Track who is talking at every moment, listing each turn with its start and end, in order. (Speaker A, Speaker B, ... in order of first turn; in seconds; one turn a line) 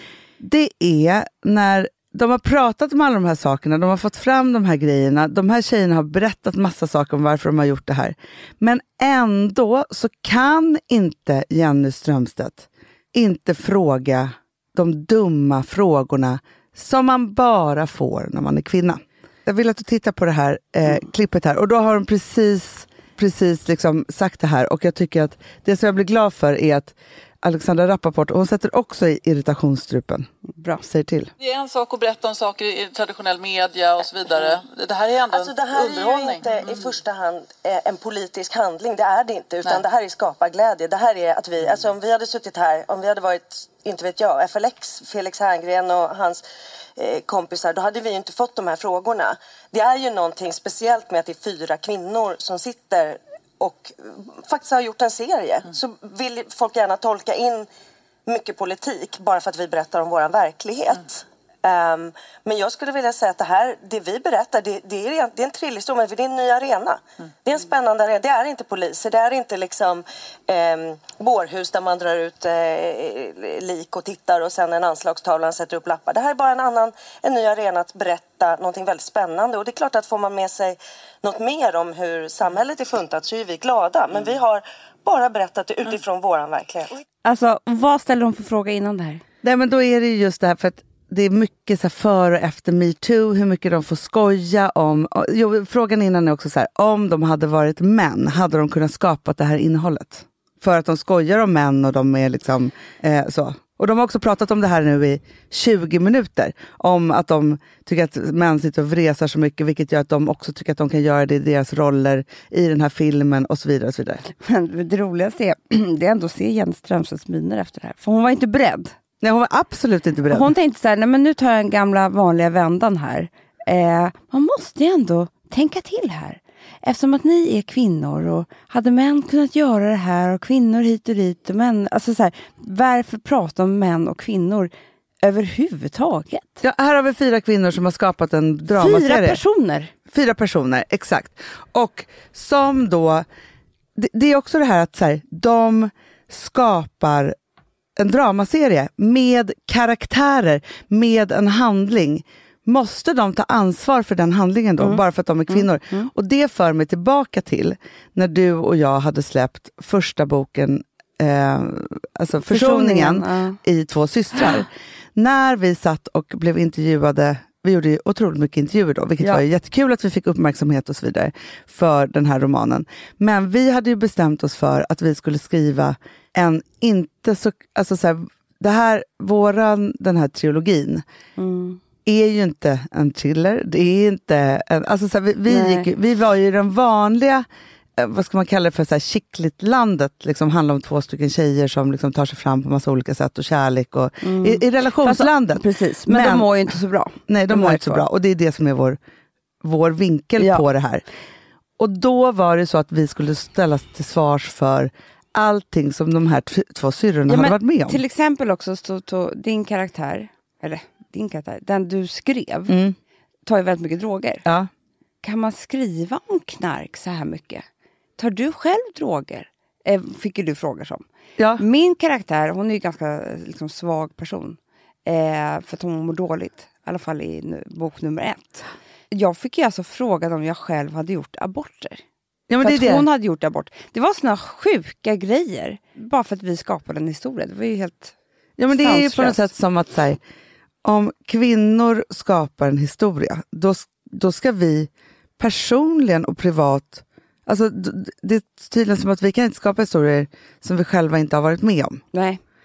Speaker A: 0.4-30.3
Speaker B: 30.5-30.9
Speaker A: 30.9-31.3
Speaker C: 31.4-36.9
Speaker D: 35.3-46.4
Speaker D: 47.0-57.7
Speaker D: 58.3-87.0
Speaker B: 87.2-89.2
Speaker A: 89.4-114.2
Speaker B: 114.3-118.9
Speaker A: 119.2-120.5
Speaker B: 120.3-134.7
Speaker B: 135.2-136.6
Speaker A: 136.6-139.4
Speaker B: 138.7-139.9
Speaker A: 140.1-143.2
Speaker A: 144.0-147.4
Speaker A: 148.0-181.0
Speaker B: 154.8-156.1
Speaker B: 162.5-163.6
Speaker B: 181.4-181.8
Speaker A: 182.1-187.5
Speaker B: 185.5-185.9
Speaker A: 188.0-196.6
Speaker B: 194.2-198.1
Speaker A: 197.3-199.0
Speaker A: 199.6-201.1
Speaker B: 200.4-200.7
Speaker A: 201.8-208.0
Speaker B: 207.3-212.8
Speaker A: 212.7-212.9
Speaker B: 213.5-214.4
Speaker B: 215.2-217.6
Speaker B: 218.2-221.1
Speaker A: 221.4-221.6
Speaker B: 221.6-232.0
Speaker A: 232.5-233.1
Speaker B: 232.6-238.1
Speaker A: 238.6-240.2
Speaker B: 238.7-239.5
Speaker A: 240.8-252.0
Speaker B: 252.1-252.4